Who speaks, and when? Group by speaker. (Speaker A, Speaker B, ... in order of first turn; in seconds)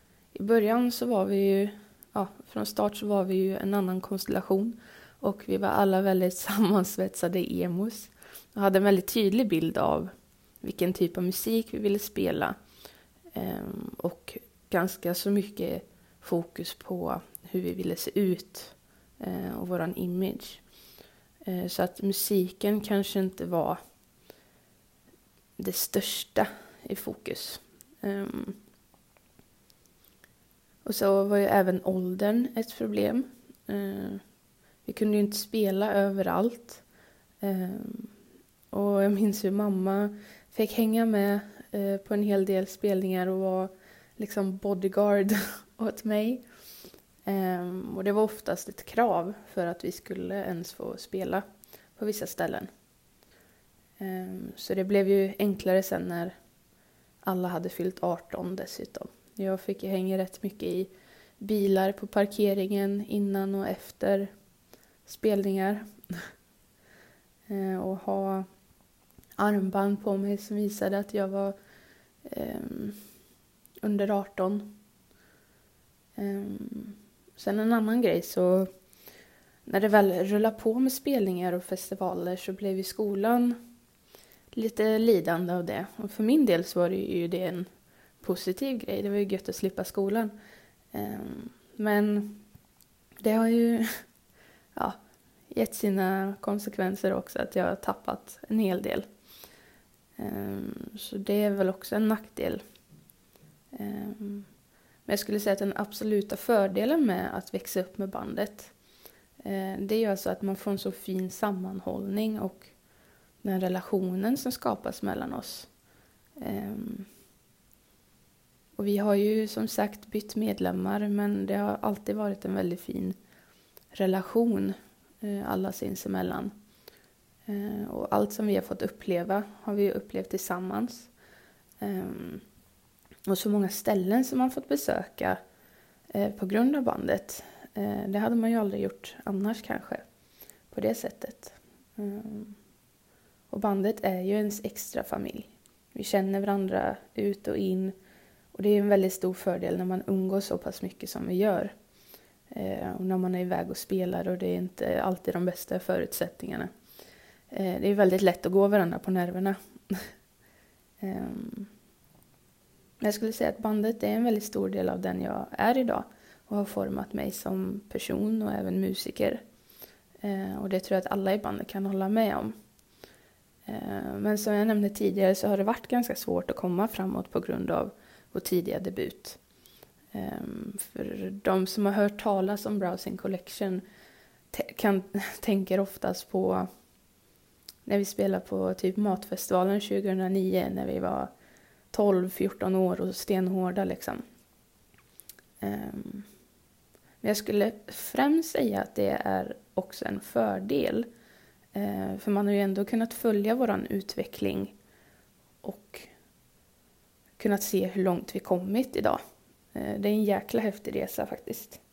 Speaker A: 0.3-12.6, 13.3-20.7, 21.5-23.8, 25.6-28.6, 30.8-34.3, 34.8-36.8, 37.4-38.1, 38.7-46.5, 47.2-52.7, 54.0-56.4, 57.2-64.4, 65.0-66.2, 67.5-68.6, 69.4-71.6, 72.2-73.0, 73.8-74.8, 76.2-78.7, 79.7-83.6, 84.5-90.3, 90.9-92.5, 93.2-94.1, 94.8-99.1, 100.2-102.6, 103.7-104.5, 105.0-108.8, 109.4-112.7, 113.4-115.7, 116.4-117.1, 118.8-123.2, 123.9-126.5, 127.5-131.1, 131.8-132.4, 133.3-135.4, 136.1-140.1, 140.7-142.6, 143.5-148.0, 148.5-151.8, 152.5-156.7, 157.5-160.1, 161.0-161.7, 163.0-169.4, 170.2-172.6, 173.7-179.4, 180.1-183.8, 184.5-186.8, 187.8-191.3, 191.9-194.2, 195.6-196.3, 197.2-201.1, 201.7-204.8, 205.6-206.1, 207.4-209.2, 209.7-211.8